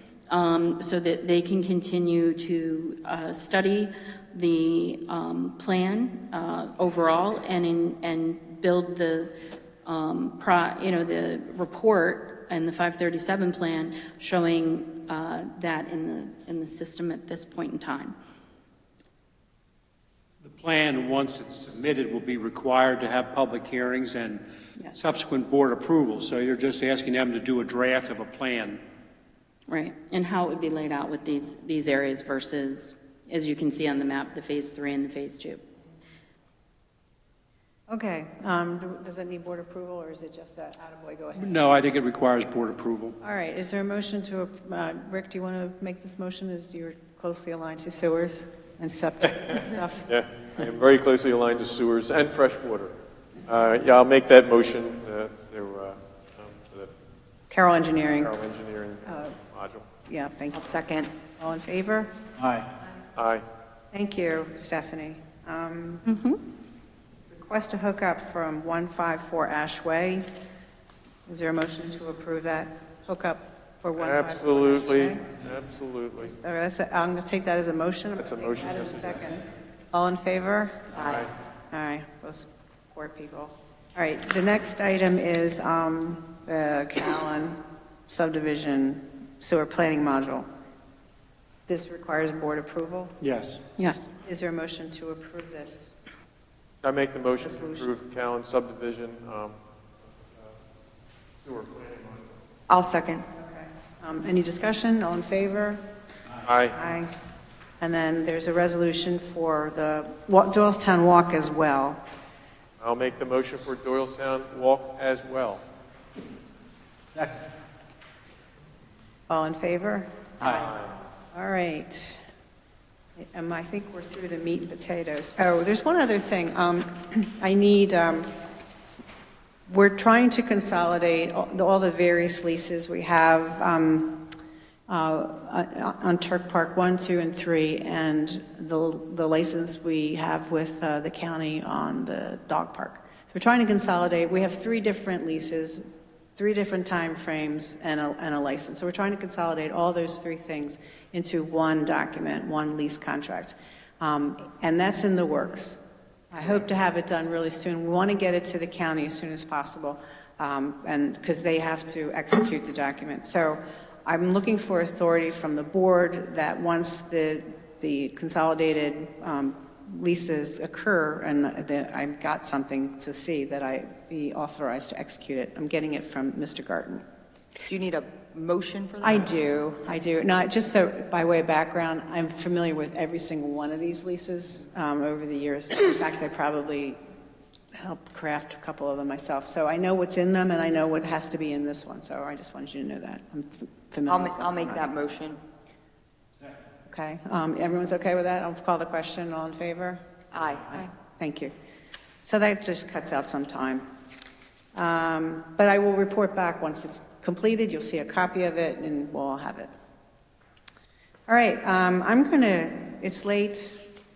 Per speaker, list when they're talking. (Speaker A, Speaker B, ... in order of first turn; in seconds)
Speaker A: 0.3-9.3, 9.8-18.1, 29.7-35.6, 66.1-66.4, 93.8-94.1
Speaker B: 20.4-28.8, 41.4-43.1, 93.2-93.6
Speaker C: 37.9-41.7, 43.2-50.1, 57.5-58.3, 59.0-59.3, 60.1-60.7, 61.4-62.1, 63.9-66.0, 67.3-70.2, 71.3-75.3, 76.2-80.9, 81.7-90.5, 91.7-93.1, 94.2-95.9, 97.4-97.9, 103.3-105.8, 106.7-107.1, 107.8-112.0, 119.3-120.1, 121.3-122.2, 123.2-128.3, 129.7-134.2, 134.9-145.8, 146.3-155.8, 156.3-177.0, 179.0-187.0, 187.7-194.9, 196.9-200.0, 201.2-201.5, 202.2-203.8, 204.7-209.7, 211.3-213.8
Speaker D: 50.1-52.9, 53.5-56.9, 58.1-59.8, 63.1-63.4, 74.0-76.3, 78.2-79.2, 80.9-81.3, 96.8-99.5, 101.4-102.2, 106.4-106.8, 112.8-115.6, 120.5-120.9
Speaker E: 60.5-61.1, 80.9-81.2, 102.7-103.2, 177.7-179.3, 194.1-195.4, 200.3-200.9